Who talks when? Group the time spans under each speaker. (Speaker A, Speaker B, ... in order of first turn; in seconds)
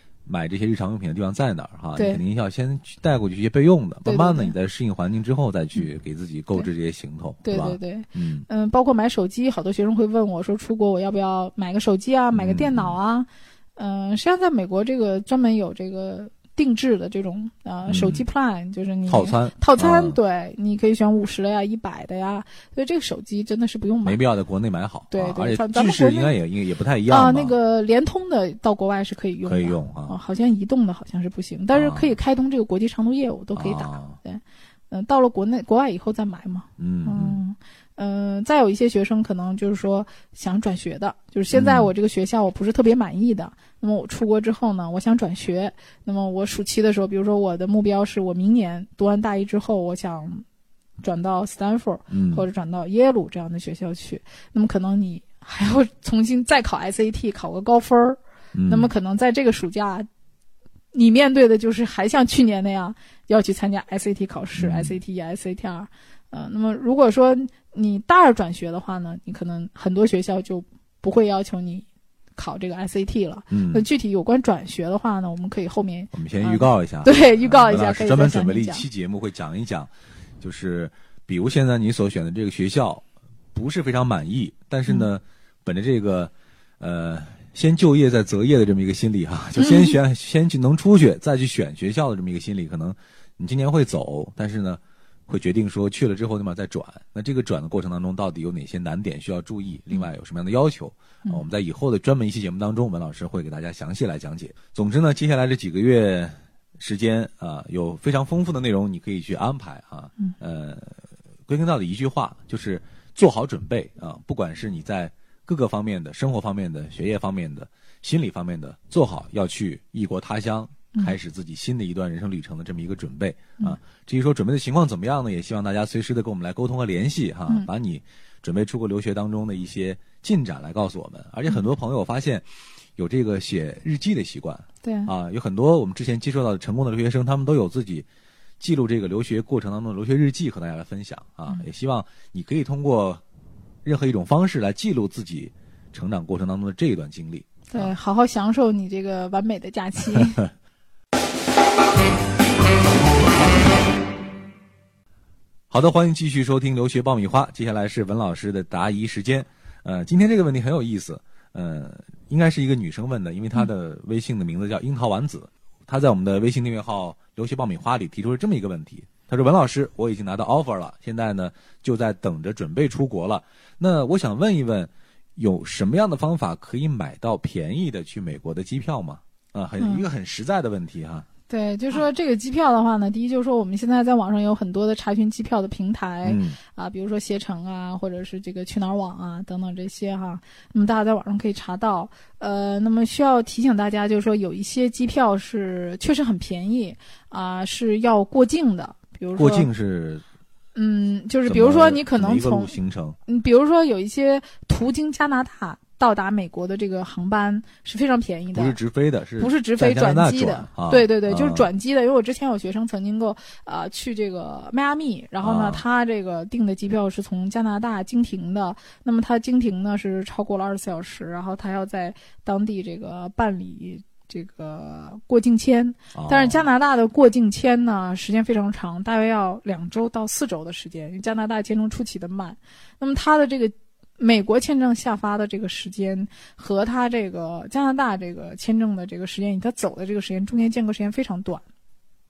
Speaker A: 0.2-8.4, 12.3-13.0, 17.9-18.2, 19.1-20.2, 24.0-27.6, 29.4-30.1, 31.7-32.2, 33.5-34.2, 36.8-37.4, 41.5-41.9, 52.1-52.5, 58.5-58.9, 64.5-65.0, 73.5-73.8, 76.1-79.9, 80.4-132.4, 132.9-138.1, 138.6-143.2, 143.8-147.9, 155.7-181.2, 186.2-186.6, 199.3-200.2, 201.5-203.2, 208.5-211.7, 215.4-215.8, 226.1-226.7
Speaker B: 1.9-2.2, 4.0-4.5, 7.4-24.2, 25.1-26.4, 27.1-50.4, 51.0-60.0, 60.9-78.8, 89.5-89.9, 134.8-135.1, 147.7-150.4, 179.8-180.1, 181.5-199.7, 200.7-208.8, 209.4-241.7